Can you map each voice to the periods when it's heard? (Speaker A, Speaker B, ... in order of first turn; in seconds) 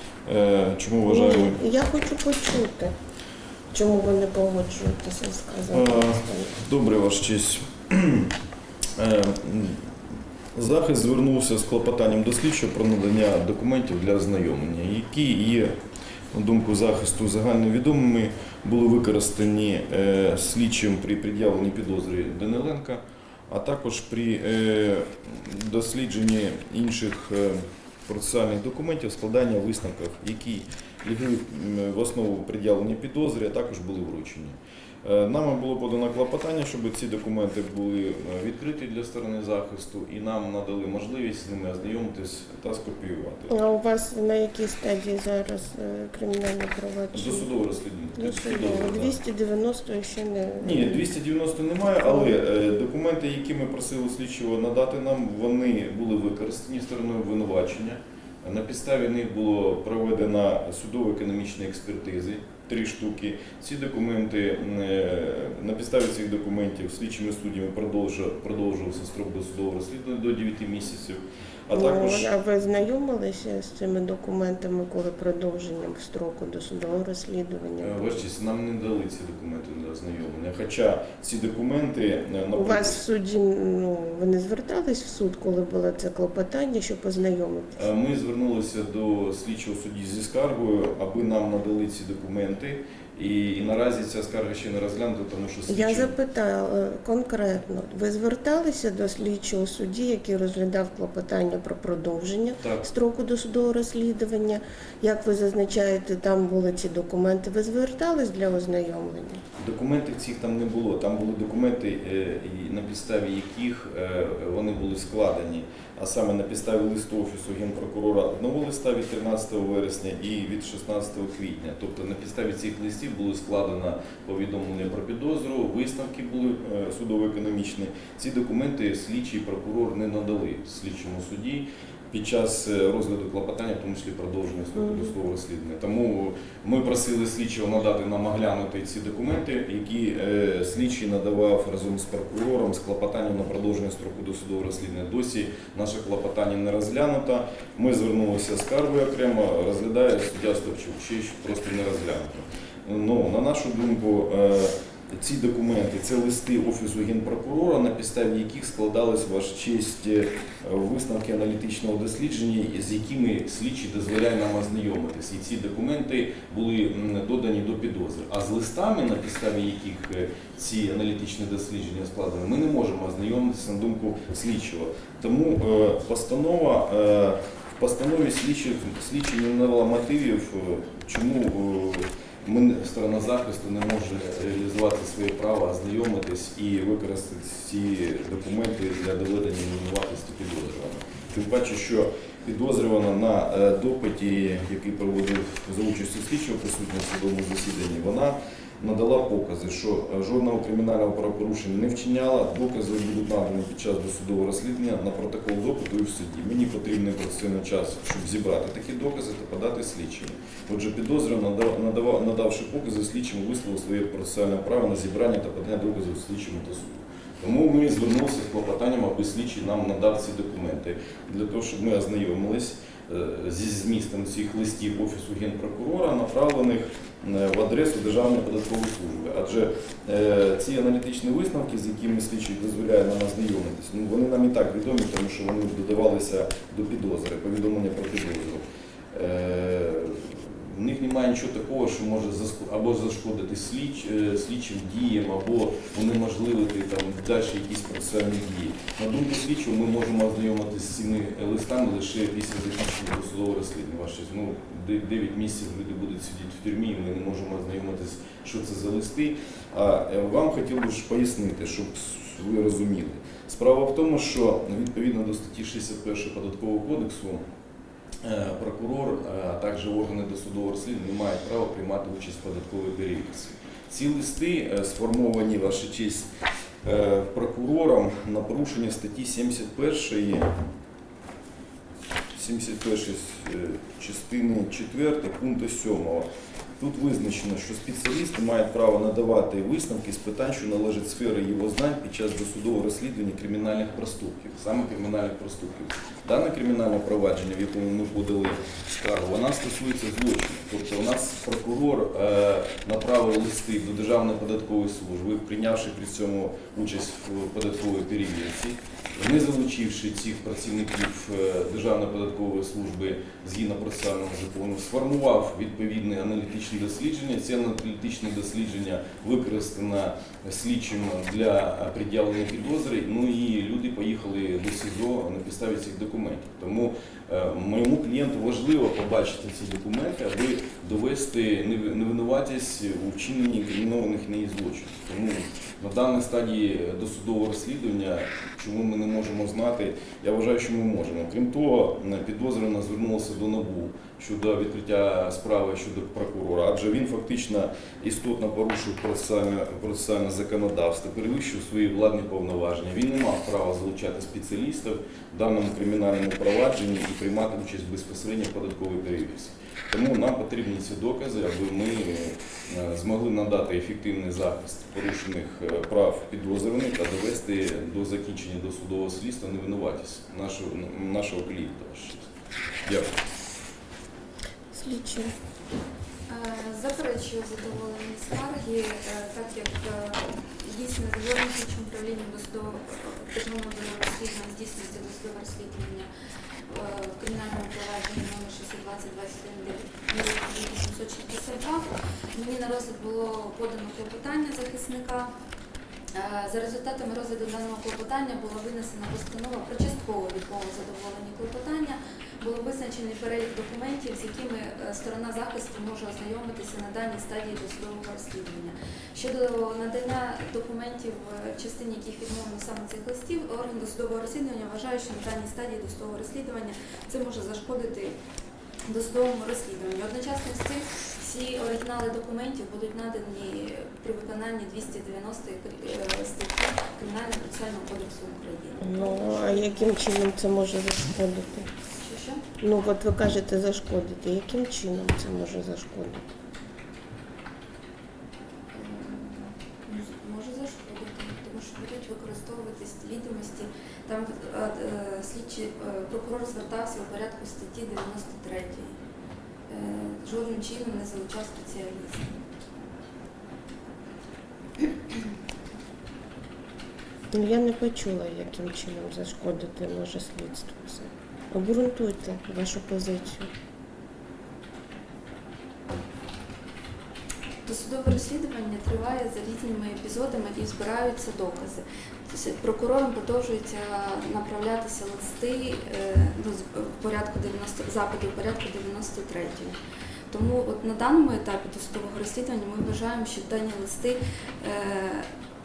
Speaker A: 0.2-1.6, 5.7-8.3, 9.0-9.9, 10.5-15.7, 16.3-43.5, 47.1-49.1, 50.6-72.3, 77.8-83.0, 87.7-96.1, 109.6-267.4, 268.2-276.3, 276.8-280.6, 282.3-286.3, 286.8-372.3, 372.8-373.1
Speaker B: 1.1-2.9, 3.7-6.5, 43.5-47.5, 48.1-51.1, 52.0-52.4, 71.7-78.2, 82.5-87.8, 95.7-109.4, 134.7-135.1, 374.7-375.3, 428.8-431.7, 432.6-436.2, 457.3-463.5
Speaker C: 376.3-386.1, 386.7-395.3, 396.1-418.2, 418.9-430.0, 432.0-432.4, 438.7-448.9, 449.7-452.4, 467.6-479.8, 480.3-485.3